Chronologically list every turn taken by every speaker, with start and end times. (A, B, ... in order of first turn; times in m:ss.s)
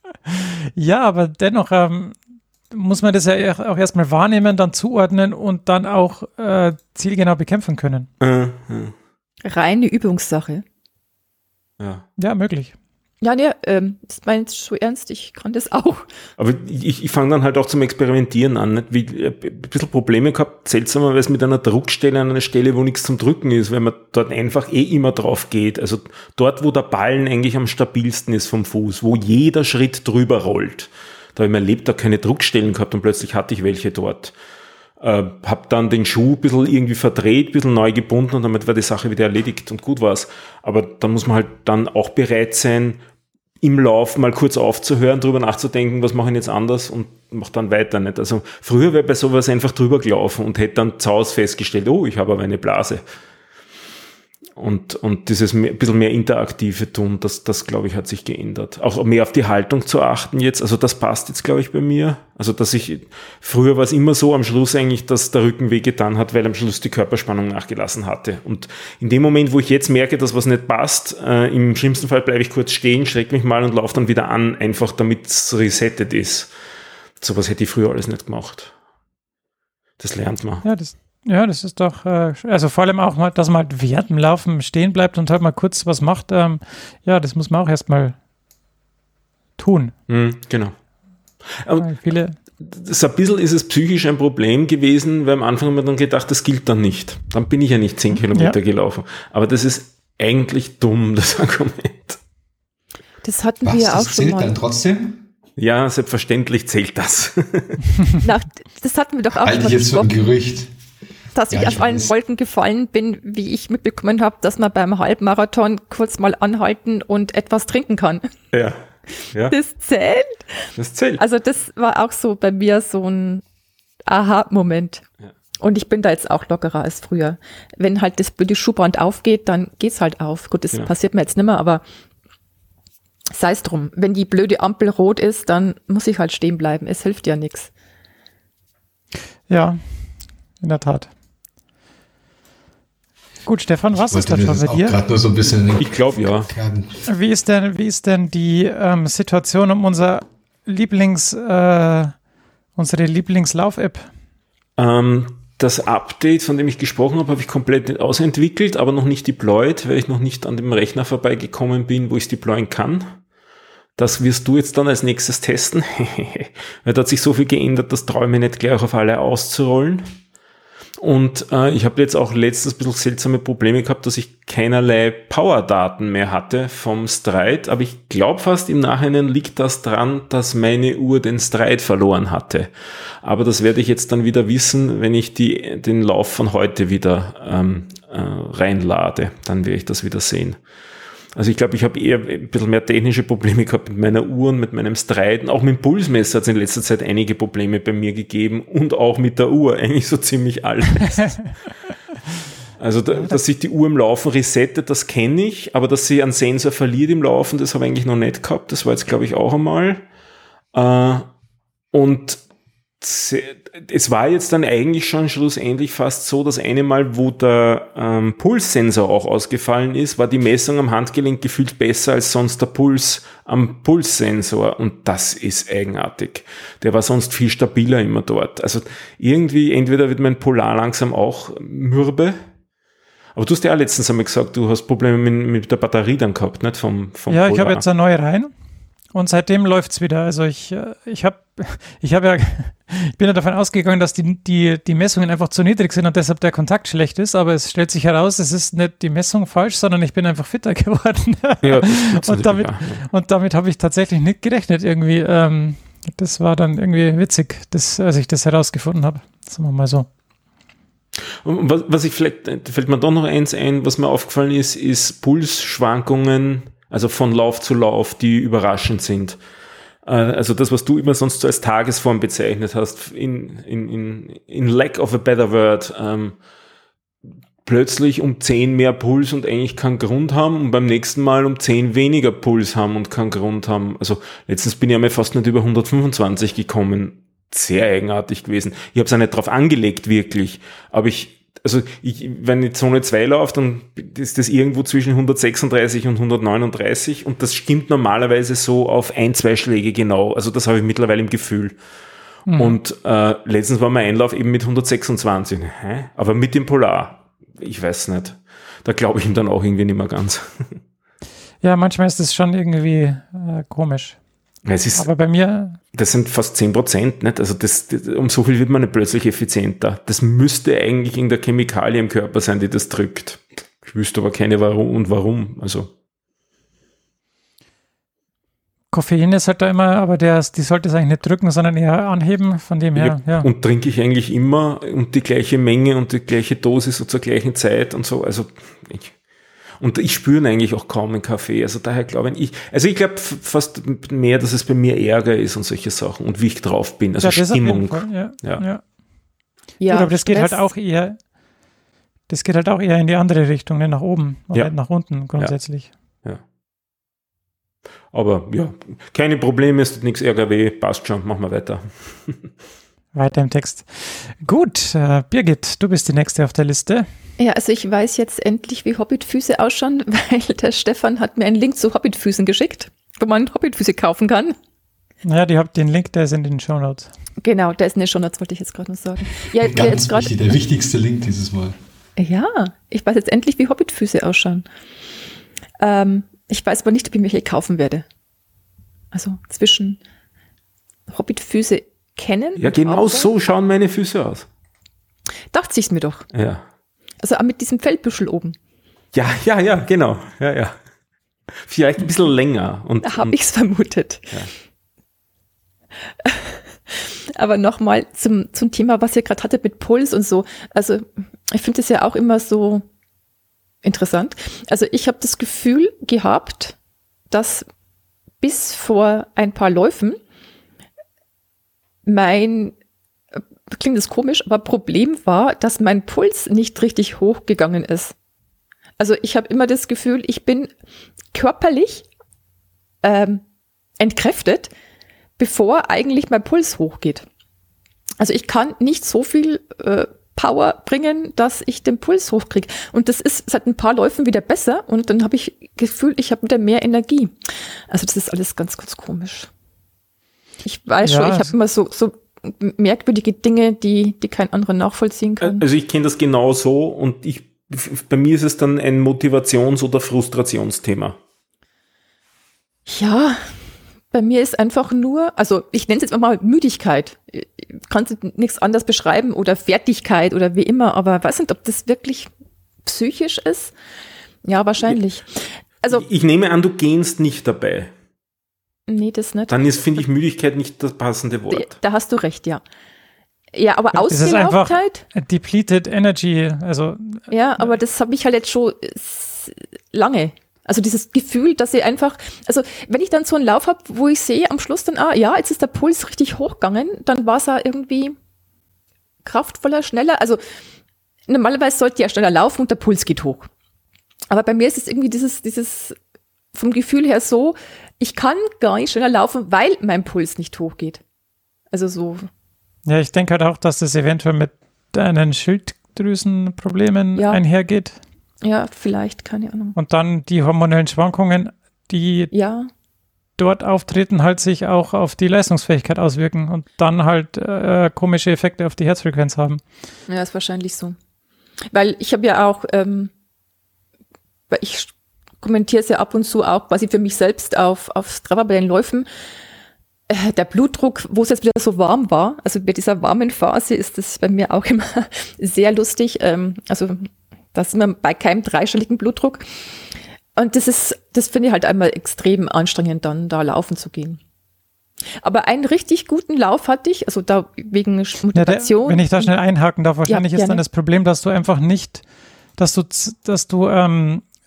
0:00.3-0:02.2 A
0:02.7-0:08.1 A
0:08.2-0:09.0 B
0:09.4-0:10.6 C
0:11.8-0:12.0 B
0:12.2-0:12.7 A
0:13.2-0:16.0 C
0:16.4-0:34.3 B
0:35.0-0:43.0 B
0:43.6-0:53.0 B
0:54.6-1:16.5 B
1:17.2-1:18.7 B
1:20.0-1:20.6 B
1:20.6-1:28.2 A
1:29.6-1:29.9 A
1:30.1-1:30.8 B
1:31.5-1:32.0 B
1:31.8-1:32.4 A
1:32.6-1:42.2 B
1:43.2-1:44.5 C
1:43.6-1:45.2 D
1:45.6-1:47.8 B
1:48.2-1:50.1 C
1:49.4-1:50.7 D
1:51.4-1:58.3 C
1:51.5-1:52.1 D
1:58.5-1:59.6 B
1:59.5-2:00.5 C
2:00.8-2:01.2 B
2:01.2-2:03.4 C
2:04.1-2:05.0 C
2:05.6-2:11.8 C
2:13.3-2:17.7 C
2:19.5-2:21.1 A
2:23.5-2:25.0 A
2:23.9-2:26.9 D
2:25.8-2:26.5 B
2:27.1-2:32.2 A
2:32.8-2:34.1 A
2:34.8-2:43.2 B
2:44.0-2:50.1 B
2:51.0-3:02.7 B
3:03.2-3:10.6 B
3:11.4-3:21.6 B
3:22.8-3:30.0 B
3:30.7-3:31.3 B
3:31.9-3:32.4 B
3:33.0-3:52.4 B
3:53.4-3:57.8 B
3:57.3-3:58.5 A
3:59.1-4:20.1 A
4:11.6-4:13.0 B
4:21.4-4:29.4 B
4:30.0-4:36.4 B
4:37.6-5:01.8 B
5:02.5-5:02.8 A
5:02.6-5:10.8 B
5:11.6-5:14.2 A
5:14.6-5:15.1 B
5:15.0-5:15.8 A
5:15.9-5:25.9 B
5:28.9-5:33.5 A
5:33.0-5:39.2 B
5:39.8-5:48.6 B
5:47.2-5:48.8 A
5:49.8-5:50.7 C
5:49.9-5:51.2 A
5:52.3-5:55.9 A
5:58.1-6:02.5 B
6:03.1-6:07.1 A
6:07.4-6:14.6 C
6:15.2-6:17.1 A
6:17.4-6:20.3 C
6:19.6-6:21.8 D
6:22.2-6:24.6 C
6:25.8-6:28.0 C
6:29.1-6:30.0 C
6:31.1-6:33.3 C
6:32.6-6:34.5 B
6:35.5-6:36.3 C
6:36.3-6:36.6 B
6:37.2-6:38.6 C
6:39.1-6:40.8 B
6:41.5-6:43.4 B
6:43.0-6:44.3 C
6:46.2-6:52.8 C
6:53.8-6:56.8 C
6:57.3-6:57.7 C
6:58.4-7:00.2 C
7:02.1-7:02.7 C
7:03.7-7:08.1 C
7:09.0-7:10.7 C
7:11.3-7:12.1 C
7:13.0-7:13.4 C
7:14.0-7:14.7 C
7:15.4-7:17.2 C
7:18.2-7:27.3 C
7:27.9-7:29.5 C
7:30.6-7:35.6 C
7:31.0-7:31.5 A
7:35.4-7:41.2 B
7:42.9-7:43.4 C
7:44.1-7:52.3 C
7:52.8-7:53.7 C
7:54.4-7:55.3 C
7:55.9-7:57.9 B
7:58.9-8:00.0 C
7:59.5-8:01.7 B
8:01.5-8:02.6 C
8:03.5-8:05.0 C
8:03.9-8:07.7 A
8:07.3-8:18.2 C
8:19.2-8:20.4 C
8:21.3-8:23.5 C
8:24.3-8:26.0 C
8:26.5-8:31.0 C
8:31.7-8:32.3 C
8:32.9-8:38.0 A
8:37.2-8:37.4 C
8:38.4-8:39.8 C
8:39.8-8:42.3 A
8:42.3-8:42.7 C
8:43.4-8:49.6 A
8:50.1-8:51.0 C
8:51.7-8:53.1 C
8:54.5-8:59.1 C
9:00.1-9:09.5 C
9:10.4-9:14.2 C
9:15.2-9:19.3 C
9:18.3-9:22.0 A
9:20.1-9:20.6 C
9:22.6-9:24.2 A